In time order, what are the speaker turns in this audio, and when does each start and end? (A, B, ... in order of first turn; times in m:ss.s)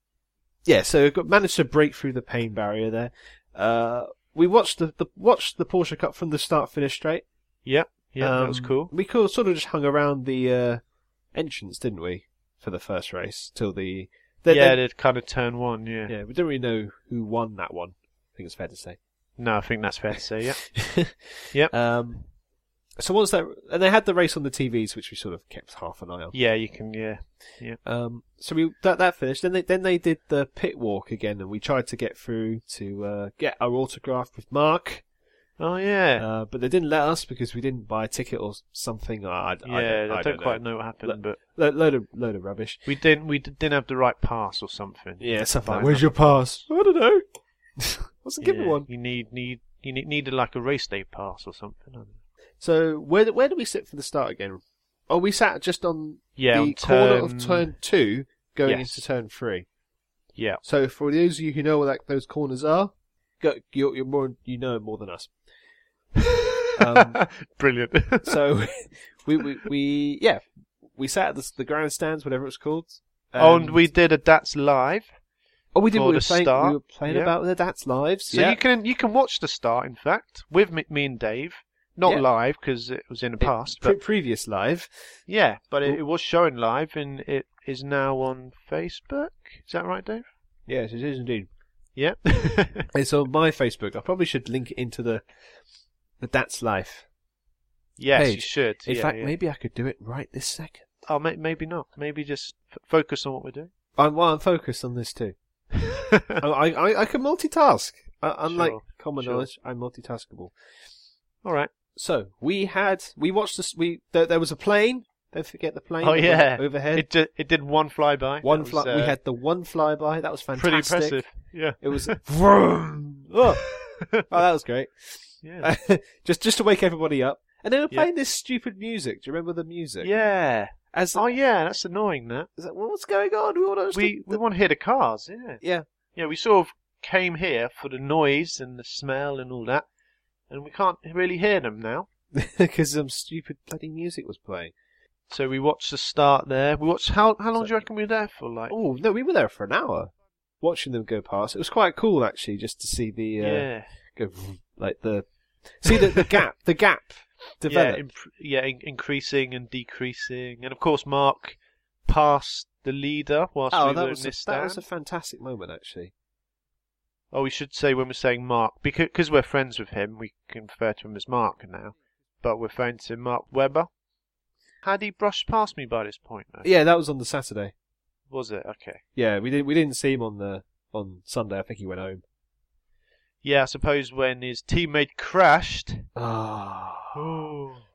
0:00.6-0:07.3 A
0:07.6-0:08.9 B
0:08.2-0:10.8 A
0:11.3-0:14.8 A
0:14.5-0:16.1 B
0:16.1-0:19.0 A
0:19.4-0:20.8 B
0:20.7-0:22.3 A
0:23.0-0:26.3 A
0:26.3-0:27.8 B
0:27.8-0:35.0 A
0:35.6-0:36.3 B
0:36.2-0:42.8 A
0:39.6-0:41.4 B
0:42.9-0:46.4 B
0:45.2-0:47.2 A
0:47.8-0:48.9 A
0:48.4-0:52.2 B
0:52.6-0:59.7 A
0:56.4-0:57.7 B
0:58.6-0:59.0 B
1:00.4-1:00.6 B
1:00.6-1:05.3 A
1:06.2-1:08.4 B
1:06.8-1:07.2 A
1:08.3-1:13.9 A
1:13.4-1:15.1 B
1:15.7-1:18.6 A
1:15.9-1:17.4 B
1:18.3-1:24.0 B
1:23.4-1:25.2 A
1:25.3-1:30.3 B
1:30.7-1:31.5 A
1:32.0-1:32.9 B
1:32.9-1:35.2 A
1:36.2-1:37.1 A
1:38.0-1:39.3 B
1:38.2-1:40.9 A
1:41.0-1:43.7 B
1:44.0-1:45.4 A
1:45.8-1:46.4 B
1:46.4-1:50.5 A
1:48.5-1:49.5 B
1:51.4-1:51.7 B
1:52.0-1:57.1 A
1:56.0-1:59.2 B
1:58.4-2:10.1 A
2:00.6-2:02.2 B
2:03.8-2:04.2 B
2:05.4-2:05.7 B
2:10.0-2:12.5 B
2:10.9-2:11.3 A
2:12.6-2:14.4 A
2:13.9-2:15.6 B
2:16.2-2:19.9 B
2:20.5-2:22.1 B
2:22.3-2:24.7 A
2:25.3-2:28.8 B
2:28.7-2:38.1 A
2:33.4-2:33.9 B
2:35.9-2:36.3 B
2:37.7-2:44.8 B
2:43.7-2:46.1 A
2:47.3-2:53.9 B
2:54.8-2:56.7 B
2:56.6-2:57.7 A
2:58.3-2:59.0 B
2:59.2-3:02.2 A
3:03.4-3:06.1 B
3:06.2-3:07.5 A
3:07.2-3:07.8 B